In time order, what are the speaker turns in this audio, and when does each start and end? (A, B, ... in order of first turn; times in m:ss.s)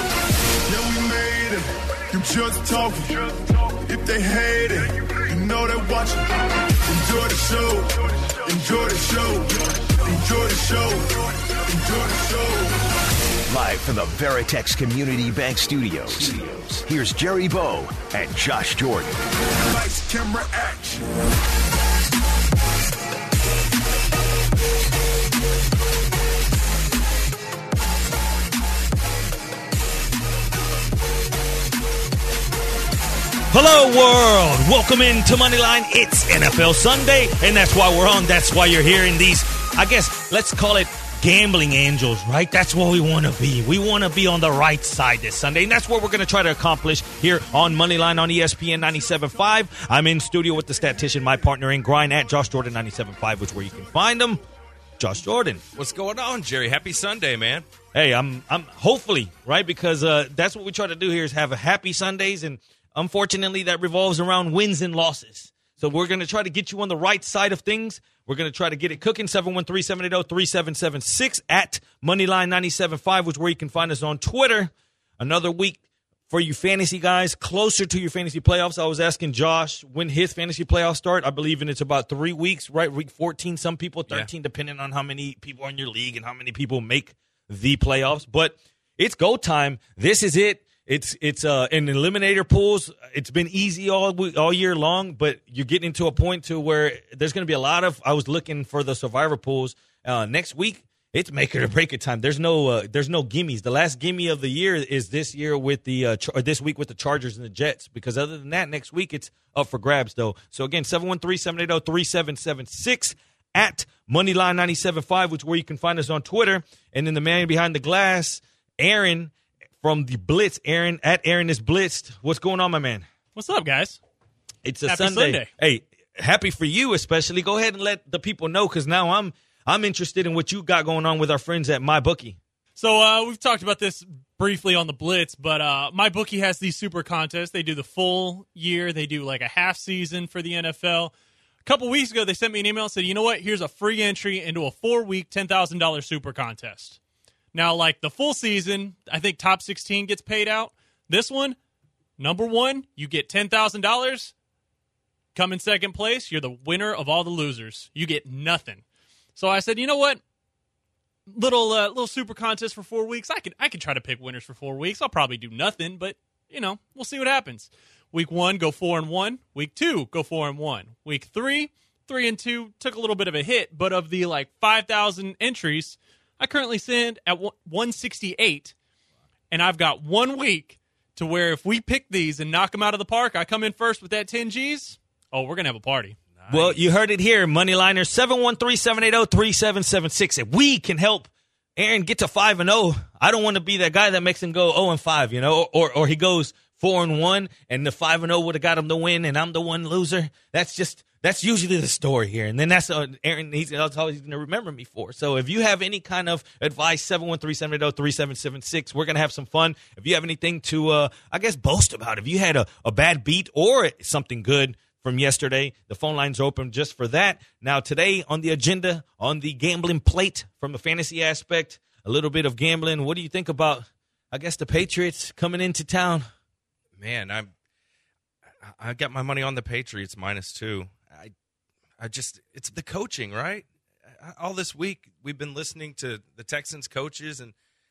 0:00.6-0:06.2 A
0:06.8-0:12.8 A
0:13.5-0:19.2 B
0:19.6-0:21.1 A
0:33.5-0:54.4 C
0:55.0-0:55.6 C
0:55.8-0:57.6 D
0:57.9-2:03.0 C
2:03.3-2:04.0 E
2:04.6-2:12.4 C
2:04.8-2:05.5 E
2:12.8-2:21.1 E
2:21.6-2:27.0 E
2:27.5-2:31.6 E
2:32.2-2:34.3 E
2:35.3-2:38.8 E
2:39.4-2:40.2 E
2:41.3-2:58.7 E
2:59.5-3:06.2 E
3:06.4-3:06.8 D
3:06.5-3:46.3 C
3:47.0-3:47.5 D
3:48.6-3:51.3 D
3:52.0-3:57.5 D